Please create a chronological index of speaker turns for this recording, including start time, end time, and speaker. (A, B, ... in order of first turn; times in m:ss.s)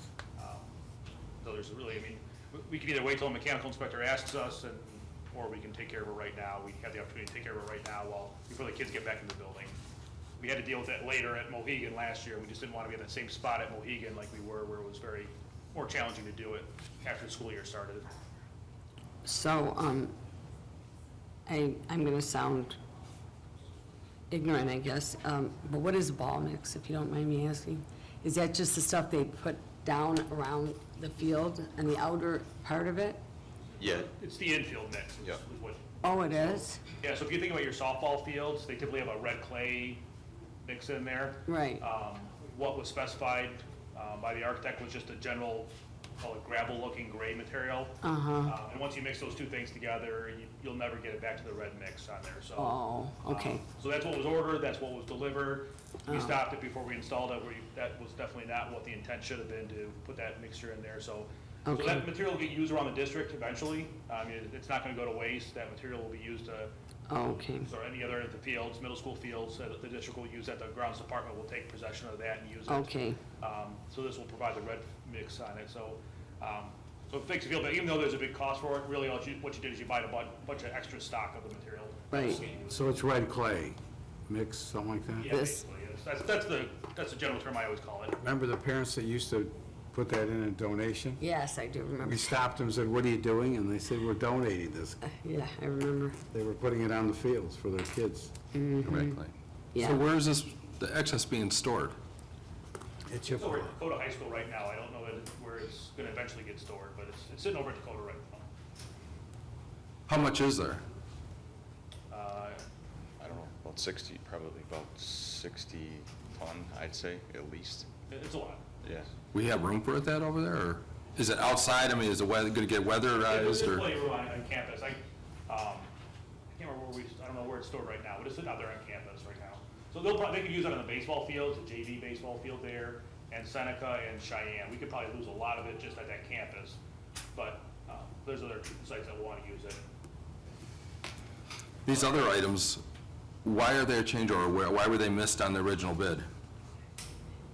0:00.4-0:00.7 A
0:01.4-0:09.8 A
0:10.4-0:18.1 A
0:19.2-0:20.1 B
0:21.5-0:22.8 B
0:24.3-0:33.2 B
0:33.8-0:34.1 C
0:33.9-0:40.0 A
0:36.0-0:36.8 B
0:40.6-0:52.8 A
0:41.5-0:41.8 B
0:48.0-0:48.6 B
0:52.6-0:53.6 B
0:53.3-1:06.7 A
0:56.1-0:56.4 B
1:01.7-1:02.0 B
1:07.1-1:07.7 B
1:07.6-1:22.9 A
1:12.7-1:13.2 B
1:22.1-1:22.4 B
1:22.7-1:23.8 D
1:24.3-1:25.3 D
1:25.2-1:28.2 A
1:25.3-1:25.6 B
1:28.2-1:31.2 D
1:31.2-1:32.4 B
1:32.0-1:35.0 D
1:35.0-1:36.2 B
1:36.3-1:39.1 D
1:38.5-1:39.2 B
1:39.3-1:42.0 E
1:39.7-1:40.0 B
1:43.1-1:43.7 D
1:43.2-1:48.5 A
1:50.1-1:50.8 E
1:52.1-1:52.6 A
1:53.2-1:57.9 C
1:58.1-1:58.6 A
1:58.8-1:59.1 C
1:59.3-2:03.8 E
2:03.2-2:05.9 A
2:06.5-2:16.8 A
2:17.4-2:19.8 A
2:21.9-2:22.8 E
2:23.4-2:26.2 E